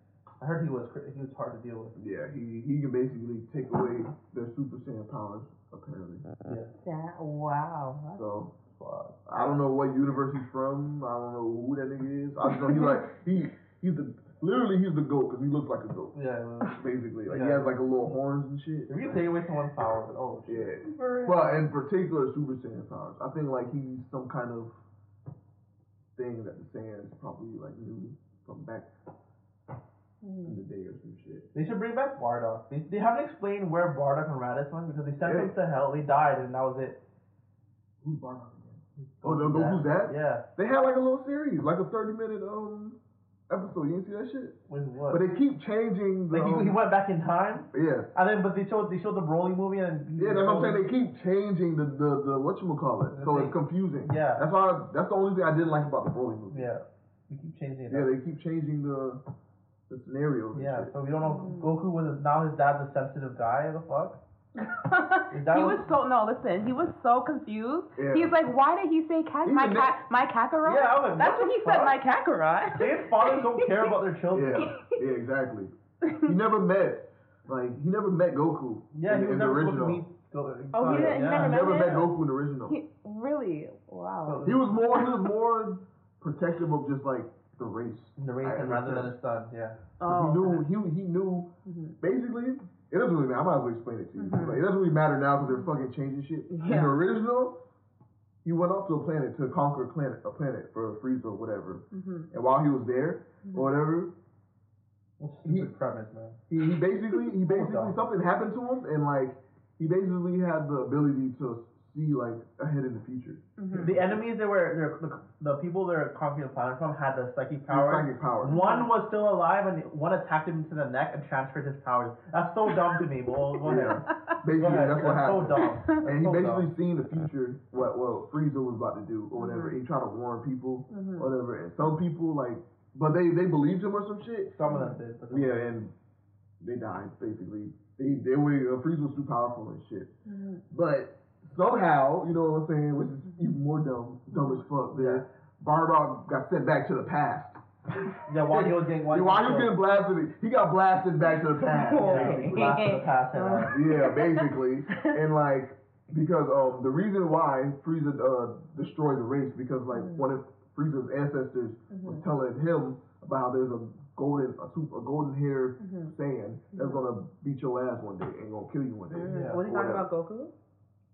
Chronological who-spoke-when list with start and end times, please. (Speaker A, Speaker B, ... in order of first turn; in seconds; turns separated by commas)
Speaker A: 0.4-1.9, Speaker B: 2.0-6.3, Speaker A: 6.5-6.7, Speaker C: 6.8-8.2, Speaker B: 8.1-8.5, Speaker A: 8.7-9.2, Speaker B: 9.3-19.2, Speaker C: 12.5-13.0, Speaker A: 16.1-17.8, Speaker A: 18.9-20.8, Speaker B: 20.5-24.7, Speaker C: 20.9-21.7, Speaker B: 26.2-28.9, Speaker C: 30.2-30.6, Speaker B: 30.4-31.5, Speaker A: 31.5-37.0, Speaker B: 35.2-35.5, Speaker B: 38.0-43.0, Speaker A: 39.0-40.5, Speaker B: 43.5-44.6, Speaker A: 44.7-45.2, Speaker B: 45.1-46.8, Speaker A: 46.3-50.9, Speaker B: 47.7-48.1, Speaker B: 50.2-56.7, Speaker A: 53.1-54.4, Speaker A: 56.5-58.1, Speaker B: 57.9-59.2, Speaker B: 59.9-60.9, Speaker A: 60.5-64.2, Speaker C: 61.2-61.8, Speaker C: 64.6-73.9, Speaker A: 65.3-65.9, Speaker B: 68.0-68.3, Speaker B: 69.4-70.0, Speaker A: 70.7-72.0, Speaker A: 72.8-74.7, Speaker B: 74.3-80.0, Speaker C: 74.6-75.0, Speaker C: 76.0-76.3, Speaker A: 78.9-81.9, Speaker C: 80.7-82.1, Speaker B: 80.9-82.8, Speaker C: 82.7-85.1, Speaker A: 84.2-84.7, Speaker B: 84.5-89.2, Speaker A: 88.2-89.8, Speaker C: 90.0-90.7, Speaker B: 90.1-91.5, Speaker C: 91.7-92.0, Speaker B: 92.0-97.6, Speaker C: 94.2-94.7, Speaker C: 96.5-96.9, Speaker B: 98.4-104.1, Speaker C: 101.9-102.3, Speaker C: 103.4-103.7, Speaker A: 105.2-106.4, Speaker B: 105.5-105.7, Speaker B: 106.5-114.2, Speaker A: 107.5-108.0, Speaker C: 113.6-114.0, Speaker A: 113.8-124.1, Speaker B: 117.7-118.6, Speaker C: 118.5-118.9, Speaker B: 123.6-134.5, Speaker C: 123.7-124.1, Speaker A: 124.6-126.7, Speaker C: 129.3-129.8, Speaker C: 130.9-131.3, Speaker A: 134.5-135.7, Speaker C: 134.7-135.0, Speaker B: 135.3-135.9, Speaker B: 136.6-140.1, Speaker C: 140.3-140.6, Speaker B: 140.7-152.8, Speaker A: 144.9-145.2, Speaker A: 148.3-149.8, Speaker C: 151.6-155.2, Speaker A: 152.0-153.8, Speaker B: 153.7-170.1, Speaker C: 159.9-160.3, Speaker C: 161.9-162.2, Speaker C: 165.8-166.1, Speaker C: 166.7-167.0, Speaker C: 169.1-170.5, Speaker A: 169.3-169.6